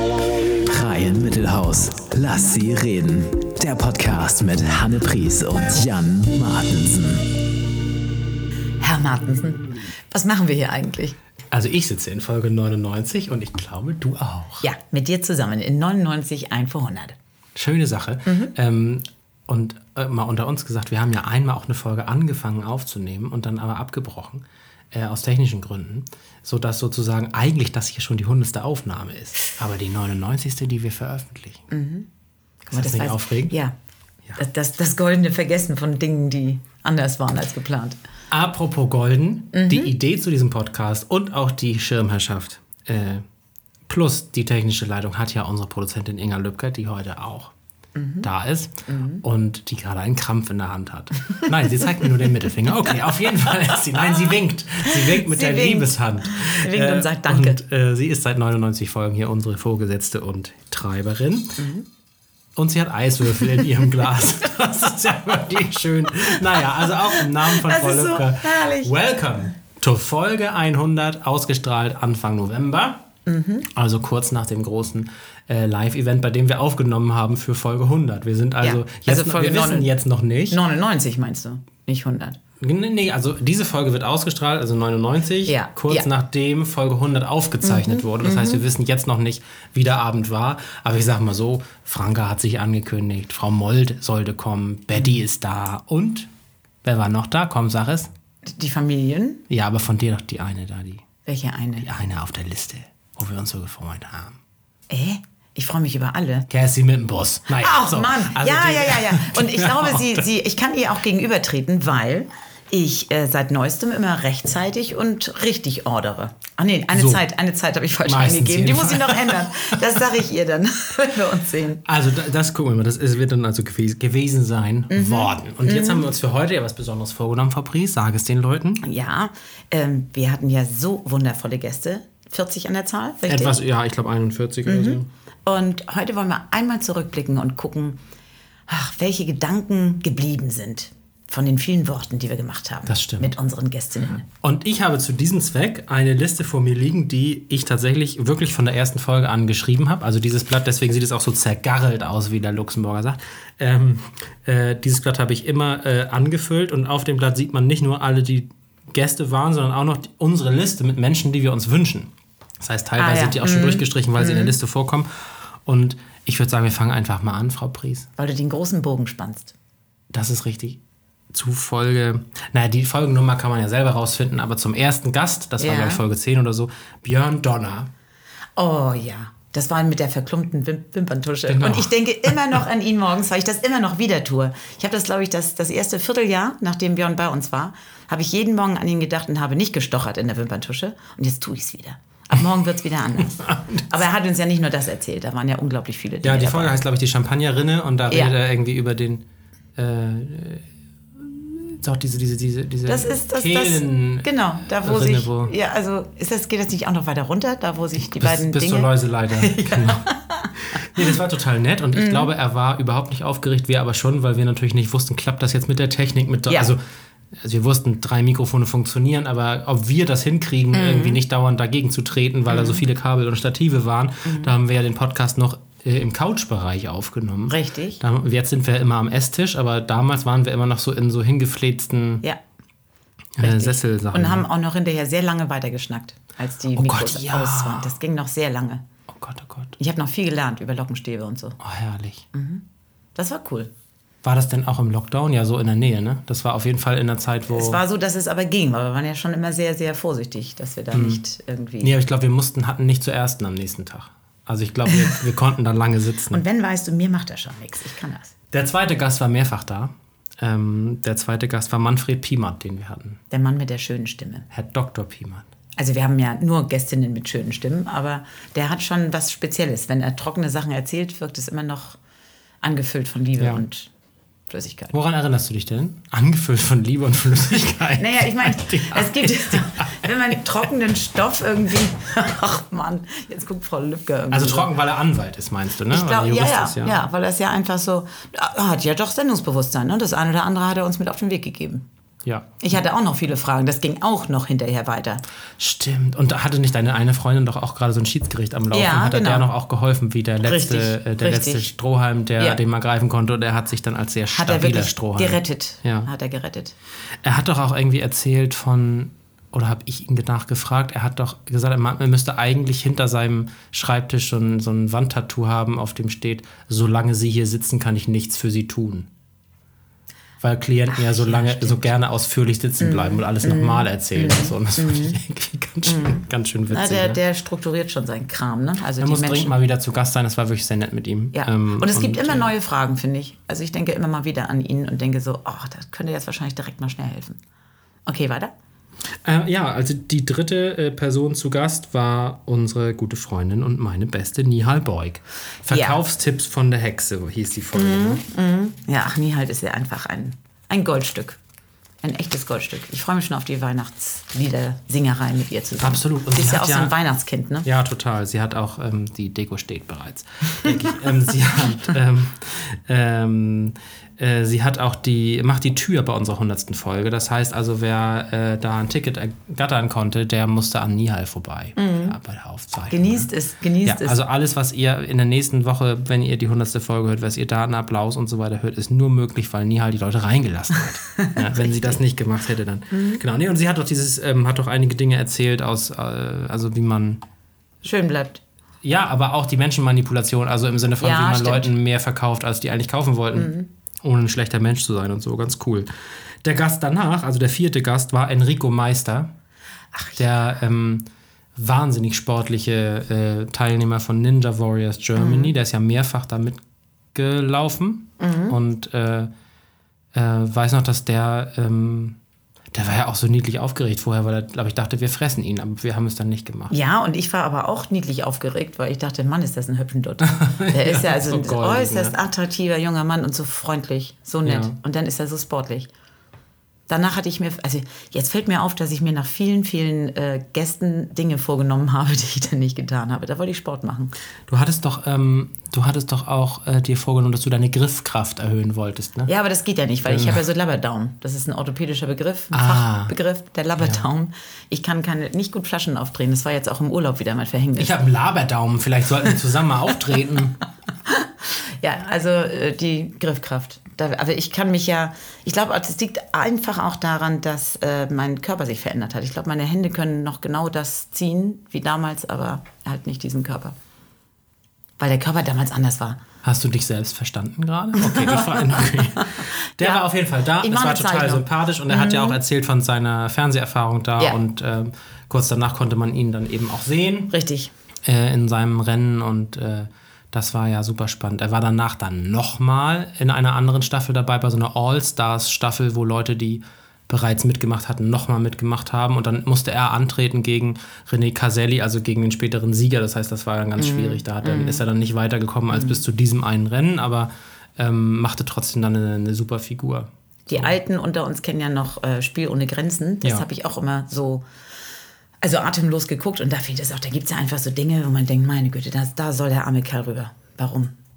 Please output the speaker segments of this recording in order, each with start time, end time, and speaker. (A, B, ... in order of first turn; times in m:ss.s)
0:00.7-0:07.3 A
0:08.8-0:11.2 B
0:11.5-0:14.7 C
0:14.6-0:17.2 B
0:17.5-0:31.6 C
0:18.3-0:18.5 B
0:31.7-0:32.1 B
0:32.6-0:33.6 C
0:32.7-0:33.7 B
0:34.4-0:38.0 B
0:38.3-0:43.2 C
0:39.5-0:39.9 B
0:43.9-0:47.5 C
0:47.9-0:48.2 B
0:48.2-1:01.6 C
0:48.9-0:49.2 B
0:55.0-0:57.6 B
1:01.6-1:01.8 B
1:02.5-1:13.0 C
1:07.1-1:08.9 B
1:13.2-1:13.6 B
1:13.6-1:20.6 C
1:18.6-1:19.9 B
1:20.5-1:22.4 B
1:22.6-1:36.3 C
1:25.4-1:26.1 B
1:27.6-1:28.6 B
1:36.8-1:38.1 C
1:38.4-1:39.4 B
1:39.5-1:41.0 C
1:41.2-1:41.9 B
1:41.8-1:44.4 C
1:44.9-1:46.5 B
1:46.5-1:50.3 C
1:47.5-2:01.8 B
1:56.9-1:57.2 C
1:58.0-2:00.0 C
2:01.8-2:08.8 C
2:04.9-2:06.1 B
2:08.8-2:13.6 B
2:13.3-2:15.1 C
2:14.6-2:18.0 B
2:18.7-2:24.2 B
2:22.9-2:23.3 C
2:24.2-2:48.1 C
2:43.0-2:44.6 B
2:48.2-2:49.5 B
2:50.1-2:50.8 C
2:51.3-2:57.9 C
2:55.6-2:56.0 B
2:58.6-3:16.7 B
3:01.5-3:02.6 C
3:13.3-3:13.9 C
3:16.2-3:19.2 C
3:19.8-3:20.6 C
3:21.2-3:25.5 C
3:22.9-3:31.1 B
3:28.0-3:36.8 C
3:31.9-3:32.3 B
3:36.5-3:36.7 B
3:37.3-3:52.2 C
3:40.7-3:41.2 B
3:42.5-3:42.8 B
3:44.2-3:44.5 B
3:47.5-3:48.0 B
3:53.4-3:54.5 C
3:53.4-3:58.8 B
3:56.8-3:58.0 C
3:59.1-3:59.8 C
3:59.8-4:01.6 B
4:01.6-4:02.2 C
4:02.3-4:02.6 B
4:03.1-4:03.7 B
4:04.2-4:07.8 C
4:07.5-4:11.9 B
4:10.9-4:11.2 C
4:11.8-4:16.4 C
4:16.3-4:18.3 B
4:18.5-4:23.2 C
4:23.3-4:24.5 B
4:24.5-4:25.5 C
4:25.8-4:32.0 B
4:32.6-4:33.9 B
4:34.5-4:34.9 B
4:34.9-4:40.1 C
4:38.0-4:44.7 B
4:44.3-4:47.0 C
4:45.9-4:51.8 B
4:52.2-4:52.5 C
4:52.6-4:55.2 B
4:55.6-5:06.1 C
4:58.7-4:59.5 B
5:00.4-5:01.7 B
5:04.3-5:06.7 B
5:07.2-5:19.1 C
5:20.4-5:27.2 C
5:20.9-5:21.8 B
5:22.8-5:25.2 B
5:25.8-5:29.5 B
5:29.0-5:32.5 C
5:31.3-5:37.4 B
5:38.0-5:38.5 B
5:39.2-5:48.2 C
5:45.7-5:46.0 B
5:47.7-5:51.4 B
5:52.0-5:57.6 B
5:55.8-5:56.9 C
5:57.6-6:13.3 C
6:11.8-6:12.2 B
6:12.9-6:14.2 B
6:13.8-6:27.2 C
6:21.1-6:22.0 B
6:22.9-6:23.2 B
6:27.8-6:28.4 B
6:28.8-6:35.9 C
6:31.0-6:31.7 B
6:33.3-6:33.7 B
6:36.4-6:39.3 C
6:39.9-6:40.2 B
6:40.2-6:46.6 C
6:45.2-6:45.5 B
6:47.1-6:49.3 C
6:48.2-6:48.6 B
6:50.1-6:52.2 C
6:52.7-6:56.7 C
6:56.7-7:05.9 B
7:00.3-7:02.2 C
7:04.4-7:04.8 C
7:06.9-7:14.1 B
7:14.5-7:19.3 C
7:19.2-7:28.0 B
7:20.0-7:20.4 C
7:22.5-7:23.1 C
7:23.8-7:24.0 C
7:27.8-7:30.6 C
7:31.0-7:43.7 B
7:45.0-7:46.2 B
7:46.4-7:57.3 C
7:48.0-7:50.0 B
7:50.6-7:52.4 B
7:57.3-7:57.7 B
7:58.0-8:20.7 C
8:13.8-8:14.8 B
8:15.7-8:16.0 B
8:20.5-8:24.4 B
8:25.4-8:30.9 B